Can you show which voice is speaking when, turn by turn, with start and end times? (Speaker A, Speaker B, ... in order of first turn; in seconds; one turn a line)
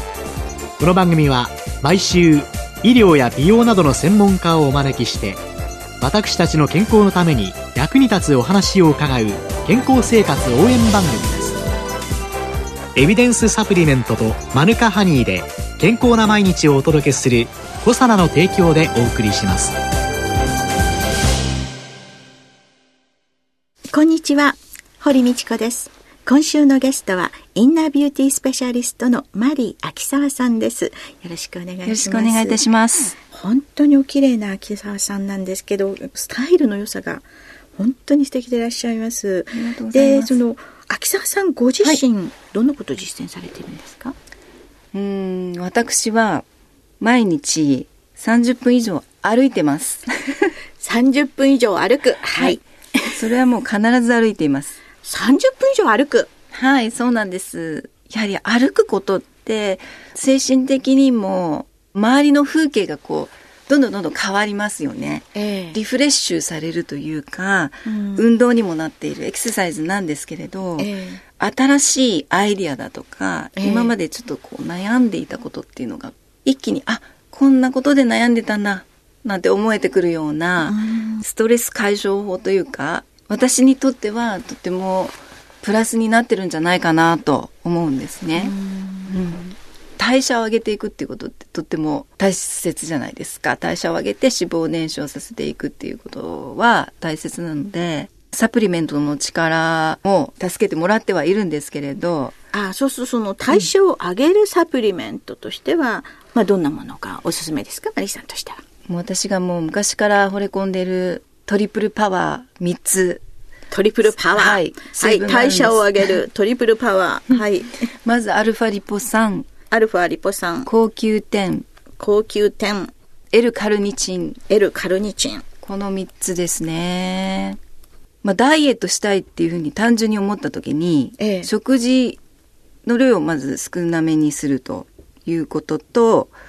Speaker A: 0.8-5.4
Speaker A: 6.0-11.6
Speaker A: 12.9-19.7
Speaker B: 23.9-32.6
Speaker C: 31.8-33.2
Speaker B: 33.3-44.1
Speaker C: 39.5-40.4
Speaker C: 44.9-46.4
Speaker C: 47.0-50.5
Speaker B: 50.8-53.1
Speaker C: 52.4-52.6
Speaker C: 53.1-54.8
Speaker B: 55.0-56.3
Speaker C: 56.5-88.5
Speaker B: 65.3-65.8
Speaker B: 67.8-68.3
Speaker B: 70.8-71.2
Speaker B: 73.6-73.9
Speaker B: 80.6-81.2
Speaker B: 88.3-89.2
Speaker C: 89.1-102.3
Speaker B: 102.5-108.6
Speaker C: 108.8-113.2
Speaker B: 113.7-117.9
Speaker C: 114.3-116.2
Speaker C: 118.0-119.5
Speaker B: 119.7-120.7
Speaker C: 120.7-121.7
Speaker B: 122.0-122.9
Speaker C: 123.3-124.4
Speaker B: 124.5-125.4
Speaker C: 125.6-127.6
Speaker C: 128.2-132.2
Speaker B: 131.2-131.5
Speaker C: 132.8-136.3